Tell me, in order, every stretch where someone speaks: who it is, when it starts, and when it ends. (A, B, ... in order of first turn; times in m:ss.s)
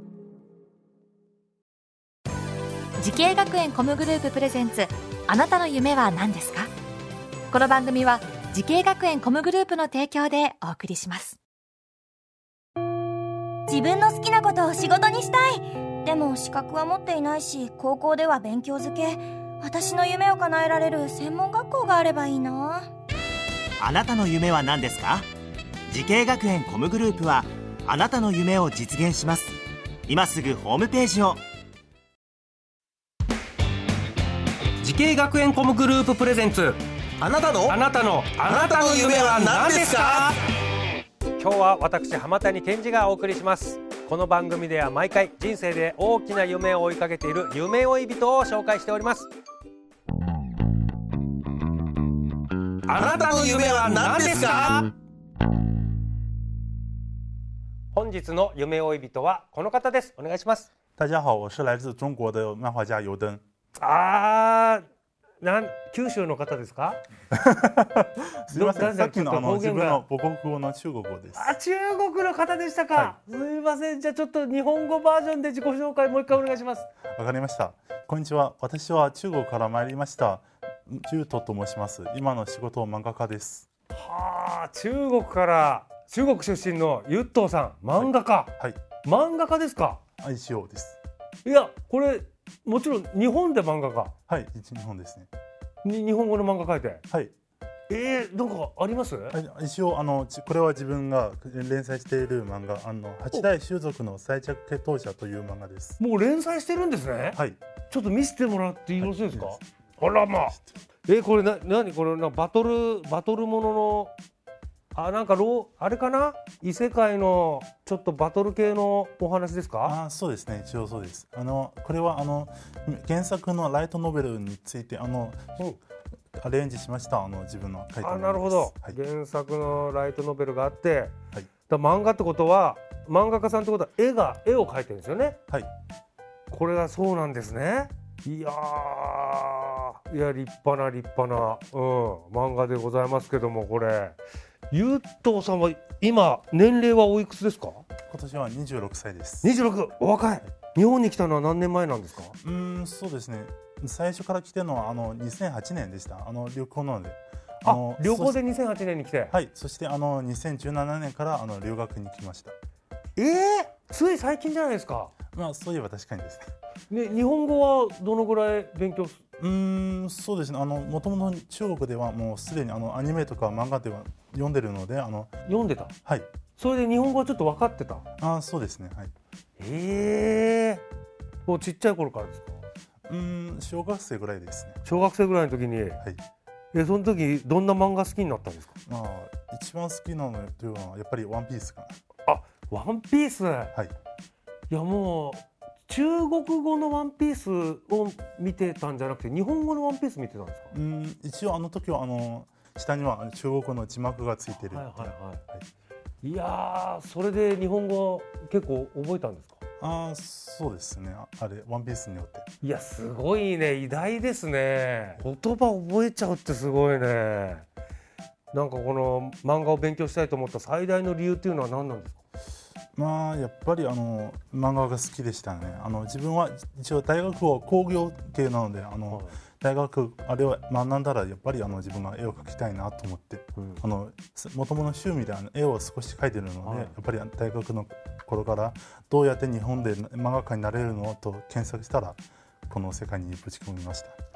0:03.0-0:06.7 A
0:07.5-0:11.4 A
0:13.7-0:22.9 B
0:23.8-0:25.3 C
0:25.9-0:29.6 C
0:30.1-0:31.4 C
0:34.8-0:36.8 D
0:37.2-0:37.8 E
0:37.5-0:40.2 D
0:38.4-0:40.3 E
0:41.4-0:49.3 D
0:52.9-0:54.9 E
0:53.2-0:54.8 D
0:57.9-1:00.7 D
1:01.0-1:03.4 F
1:03.8-1:04.8 D
1:05.4-1:07.0 D
1:07.3-1:11.6 F
1:08.5-1:10.0 D
1:11.4-1:16.9 D
1:17.2-1:23.7 F
1:23.9-1:30.0 D
1:28.0-1:28.8 F
1:30.2-1:31.0 F
1:31.4-1:34.1 D
1:34.3-1:35.3 F
1:35.8-1:37.0 D
1:37.9-1:39.4 D
1:39.3-1:46.0 F
1:46.0-1:54.1 D
1:49.0-1:49.6 F
1:54.9-2:00.0 D
1:59.8-2:05.7 F
2:06.4-2:09.0 F
2:08.0-2:11.1 D
2:11.7-2:15.4 D
2:16.5-2:24.2 D
2:24.7-2:27.8 D
2:28.0-2:29.6 F
2:29.4-2:32.4 D
2:32.4-2:38.4 F
2:37.6-2:39.3 D
2:39.3-2:42.6 F
2:43.2-2:45.1 D
2:45.3-2:46.5 F
2:46.9-2:49.2 D
2:49.4-2:55.3 F
2:55.5-2:55.9 D
2:56.6-2:58.0 D
2:58.2-2:59.1 F
2:59.6-3:00.8 D
3:01.5-3:02.6 D
3:03.1-3:04.8 F
3:04.8-3:06.0 D
3:06.7-3:08.7 D
3:08.9-3:11.9 F
3:12.3-3:13.7 D
3:14.7-3:20.7 D
3:20.7-3:25.6 F
3:24.7-3:25.4 D
3:26.2-3:29.6 D
3:29.8-3:32.5 F
3:32.6-3:37.7 D
3:38.5-3:42.2 D
3:43.0-4:04.2 F
3:49.1-3:49.4 D
3:56.6-3:56.9 D